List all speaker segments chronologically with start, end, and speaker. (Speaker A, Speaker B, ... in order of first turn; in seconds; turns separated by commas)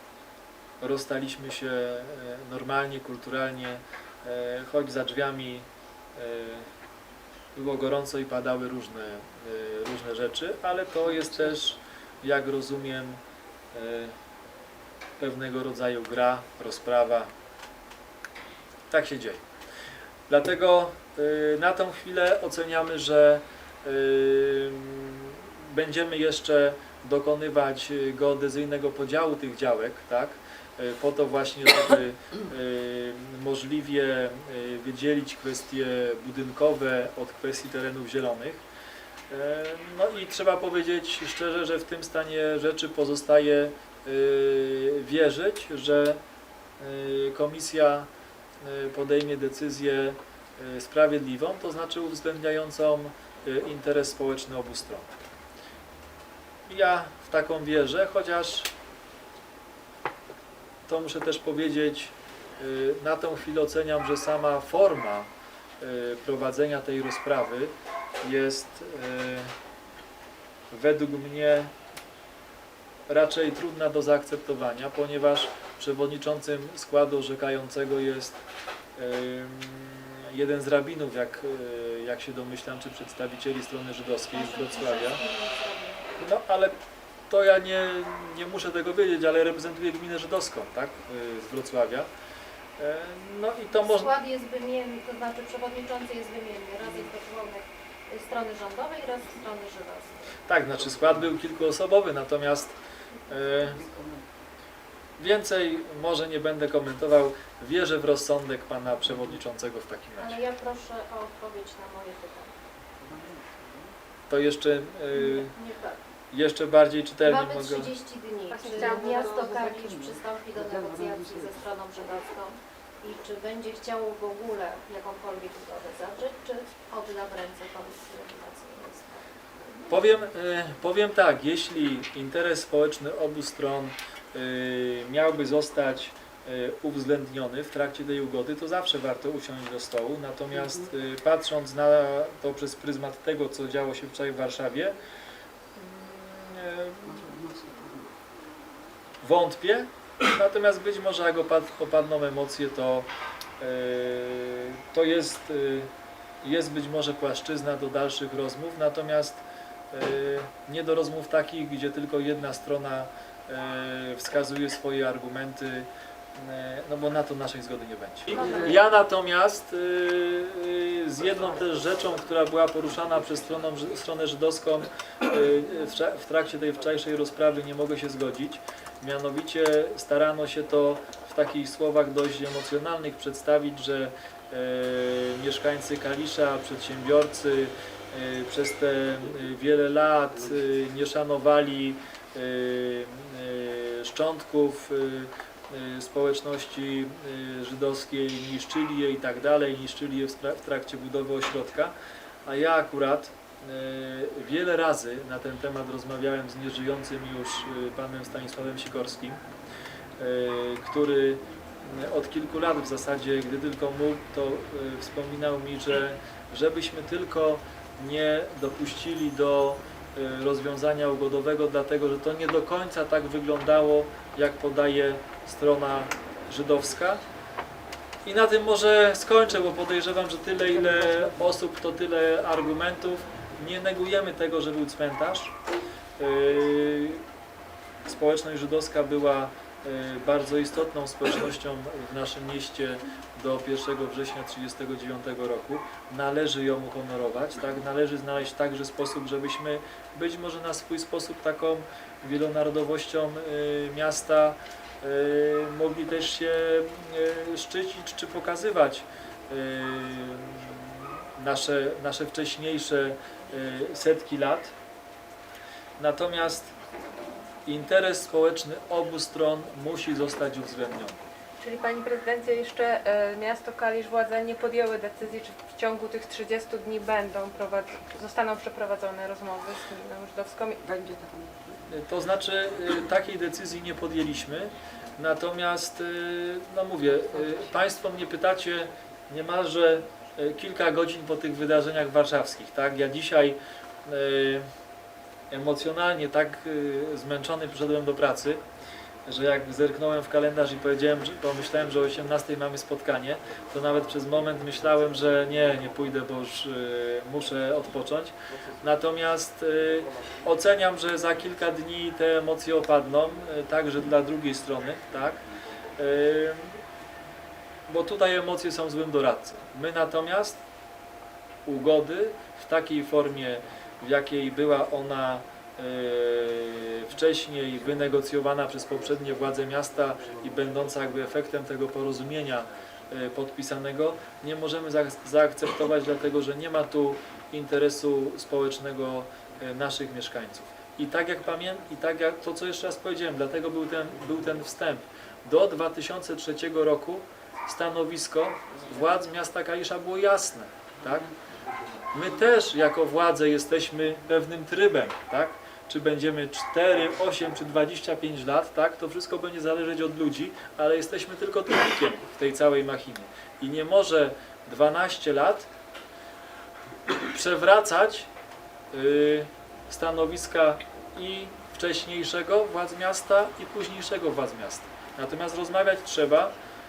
Speaker A: 0.8-6.7, Speaker A: 7.5-13.2, Speaker A: 13.7-14.1, Speaker A: 15.2-17.3, Speaker A: 18.9-19.4, Speaker A: 20.3-38.6, Speaker A: 39.3-46.2, Speaker A: 46.8-48.1, Speaker A: 48.6-55.2, Speaker A: 56.7-58.7, Speaker A: 60.9-65.3, Speaker A: 65.8-69.5, Speaker A: 70.7-71.7, Speaker A: 73.1-78.4, Speaker A: 79.0-85.2, Speaker B: 84.3-86.2, Speaker A: 86.2-86.8, Speaker A: 87.3-92.1, Speaker A: 92.8-94.1, Speaker B: 93.8-100.2, Speaker A: 100.5-102.8, Speaker A: 103.3-103.8, Speaker C: 103.5-104.4, Speaker A: 105.2-110.4, Speaker B: 110.2-112.5, Speaker C: 113.0-114.0, Speaker A: 114.3-115.5, Speaker B: 115.1-116.0, Speaker A: 116.3-117.9, Speaker B: 117.2-129.1, Speaker D: 118.5-119.7, Speaker C: 118.7-121.6, Speaker A: 129.8-144.9, Speaker C: 140.6-140.9, Speaker A: 145.7-147.2, Speaker C: 147.0-148.1, Speaker A: 149.2-155.9, Speaker A: 156.4-201.9, Speaker B: 168.3-168.6, Speaker A: 202.4-209.4, Speaker A: 210.2-227.2, Speaker A: 228.2-235.6, Speaker A: 236.2-237.2, Speaker A: 238.0-264.7, Speaker A: 266.0-266.7, Speaker A: 267.6-271.2, Speaker D: 271.6-280.8, Speaker C: 280.8-281.9, Speaker A: 281.9-294.7, Speaker A: 295.5-298.6, Speaker A: 299.2-315.4, Speaker A: 315.9-316.8, Speaker A: 317.9-320.6, Speaker A: 321.6-351.3, Speaker A: 352.1-365.7, Speaker A: 367.3-368.3, Speaker A: 368.9-376.5